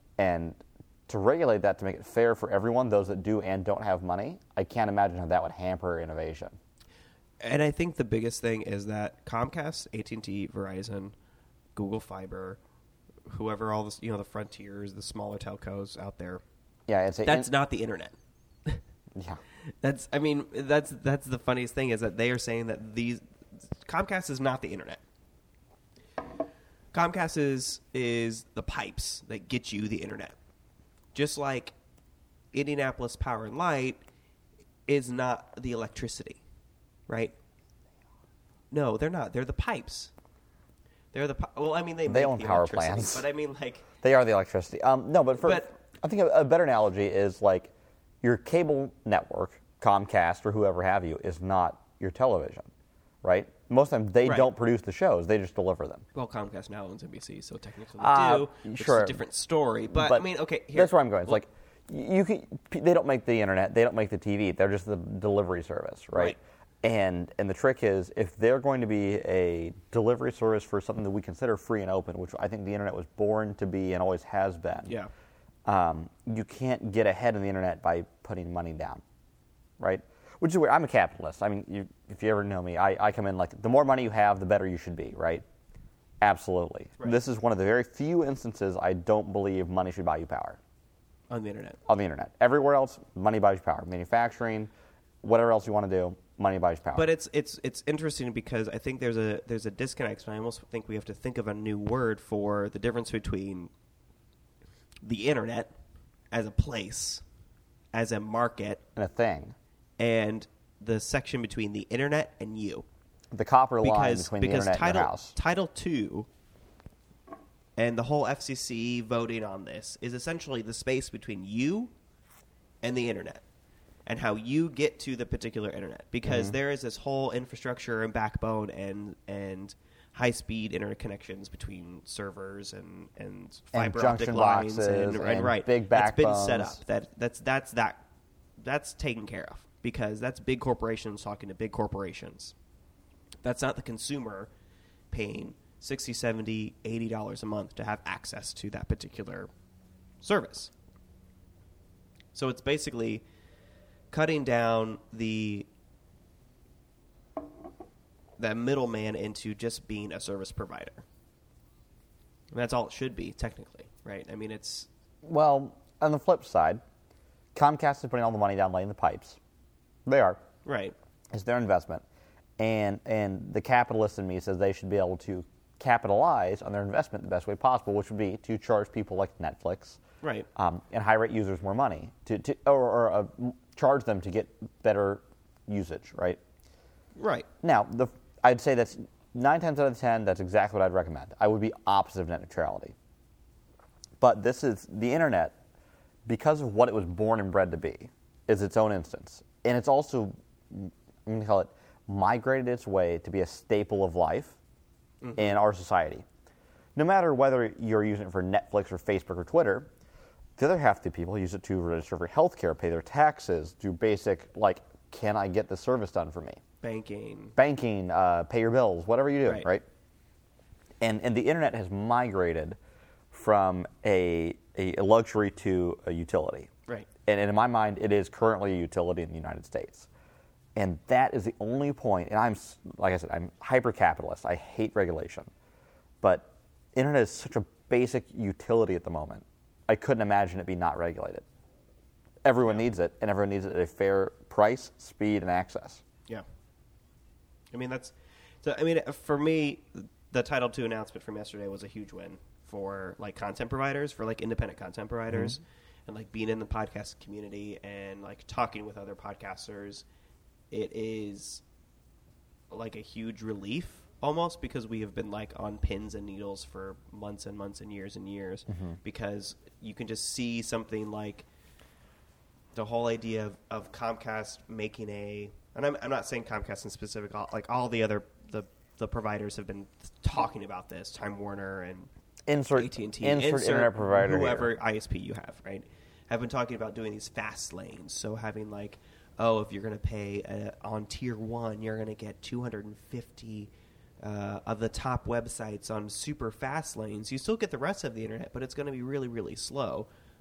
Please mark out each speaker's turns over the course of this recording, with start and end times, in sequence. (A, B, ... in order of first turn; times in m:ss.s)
0:00.2-0:06.6 A
0:07.4-0:11.2 B
0:11.8-0:12.6 B
0:13.3-0:16.4 B
0:16.9-0:17.5 A
0:17.2-0:18.2 B
0:19.2-0:19.4 A
0:19.8-0:25.0 B
0:26.9-0:30.4 B
0:31.1-0:31.7 B
0:32.5-0:34.0 B
0:34.9-0:36.4 B
0:37.1-0:37.4 B
0:38.7-0:40.1 B
0:41.1-0:43.9 B
0:42.1-0:43.3 A
0:44.0-0:52.7 A
0:45.4-0:45.7 B
0:53.2-0:56.0 A
0:54.2-0:54.5 B
0:56.2-1:01.4 B
0:58.0-0:59.2 A
0:59.9-1:14.9 A
1:15.7-1:19.0 A
1:19.8-1:25.4 A
1:26.2-1:30.6 A
1:31.3-1:31.8 B
1:31.9-1:34.7 A
1:35.2-1:37.1 A
1:37.0-1:43.7 B
1:45.0-1:45.7 B
1:46.3-1:47.2 B
1:47.9-1:48.8 B
1:49.0-1:49.6 A
1:50.0-1:52.8 B
1:53.3-1:55.4 A
1:53.8-1:56.3 B
1:57.8-2:01.9 B
2:02.8-2:03.4 B
2:04.1-2:18.0 B
2:06.2-2:06.6 A
2:13.7-2:16.8 A
2:18.6-2:22.5 B
2:23.4-2:24.5 B
2:25.1-2:29.5 B
2:30.2-2:30.7 B
2:32.3-2:33.2 B
2:34.1-2:35.7 B
2:38.4-2:41.0 B
2:42.5-2:44.9 B
2:45.2-2:46.8 A
2:47.6-2:49.4 A
2:50.1-2:50.4 A
2:50.6-2:51.0 B
2:51.3-2:52.0 A
2:52.6-3:00.0 A
3:00.2-3:00.5 B
3:00.6-3:06.4 A
3:07.2-3:07.5 B
3:07.6-3:13.0 A
3:14.2-3:15.6 A
3:16.3-3:24.6 A
3:25.2-3:25.6 B
3:25.4-3:26.2 A
3:27.0-3:29.9 A
3:30.6-3:36.6 A
3:36.8-3:37.6 B
3:37.6-3:39.8 A
3:41.0-3:42.8 A
3:43.3-3:46.7 A
3:47.3-3:50.1 A
3:50.8-3:55.5 A
3:56.2-4:01.4 A
4:02.4-4:06.0 A
4:07.7-4:20.0 B
4:20.7-4:21.6 B
4:22.7-4:31.4 B
4:28.7-4:29.0 A
4:32.8-4:42.1 B
4:42.5-4:44.7 A
4:42.8-4:53.7 B
4:54.2-5:00.1 B